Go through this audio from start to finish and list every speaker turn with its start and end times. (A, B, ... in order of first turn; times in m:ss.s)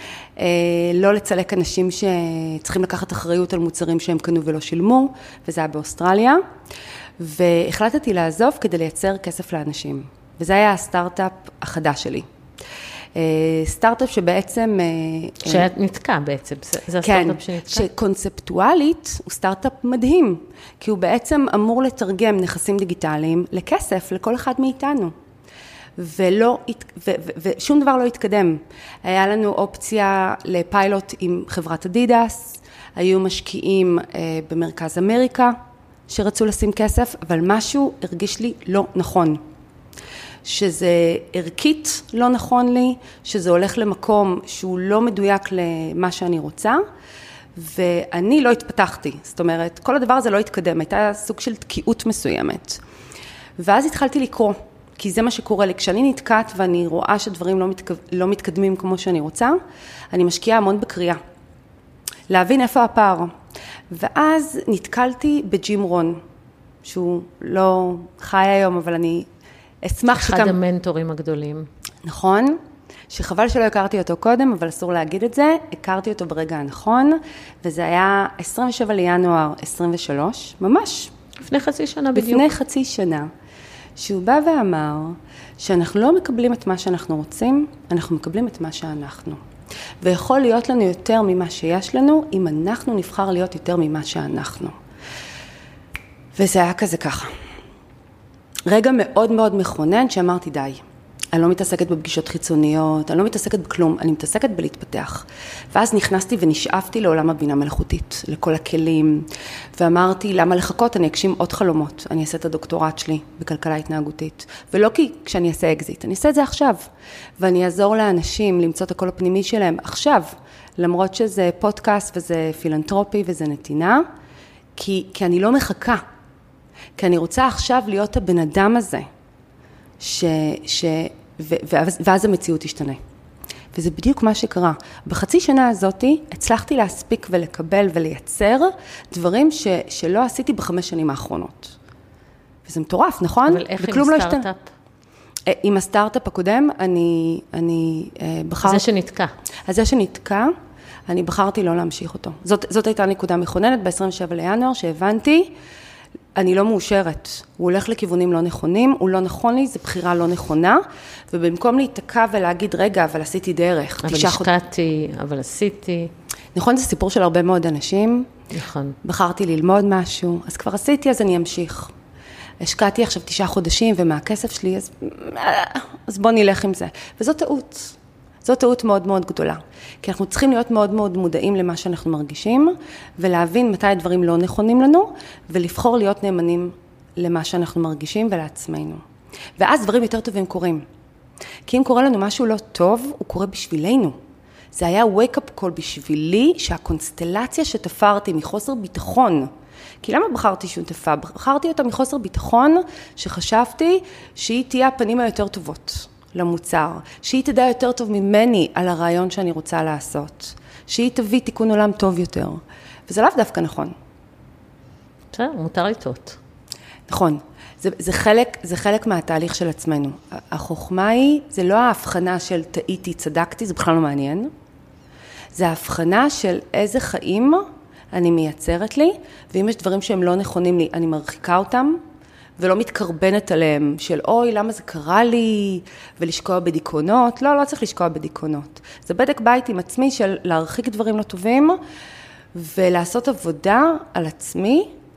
0:00.4-0:06.4 A
0:07.2-0:12.3 A
0:13.1-0:15.7 A
0:15.4-0:17.9 B
0:17.0-0:25.1 A
0:26.0-0:35.6 A
0:36.1-0:39.4 A
0:40.4-0:46.8 A
0:47.5-0:52.8 A
0:53.6-0:59.6 A
1:00.1-1:01.2 A
1:02.3-1:03.3 A
1:03.9-1:06.2 A
1:06.8-1:09.3 A
1:09.8-1:10.6 A
1:10.1-1:11.7 B
1:12.0-1:12.6 A
1:13.1-1:21.1 A
1:21.4-1:22.5 B
1:22.1-1:23.3 A
1:24.0-1:29.4 A
1:30.0-1:34.7 A
1:36.4-1:37.3 A
1:38.7-1:40.8 A
1:41.3-2:04.0 A
2:04.8-2:06.0 A
2:07.0-2:09.1 A
2:10.0-2:13.0 A
2:13.7-2:21.8 A
2:22.6-2:24.4 A
2:23.5-2:24.7 B
2:25.5-2:28.8 A
2:28.6-2:29.3 B
2:29.6-2:30.5 A
2:31.1-2:35.5 A
2:36.3-2:44.5 A
2:44.0-2:46.1 B
2:46.5-2:48.3 A
2:48.5-2:49.0 B
2:49.0-2:51.9 A
2:52.6-3:09.0 A
3:09.6-3:10.8 A
3:11.6-3:14.2 A
3:14.7-3:19.5 A
3:20.0-3:33.9 A
3:35.3-3:36.4 B
3:37.1-3:44.5 A
3:45.5-3:52.0 A
3:52.6-4:01.8 A
4:02.5-4:04.9 A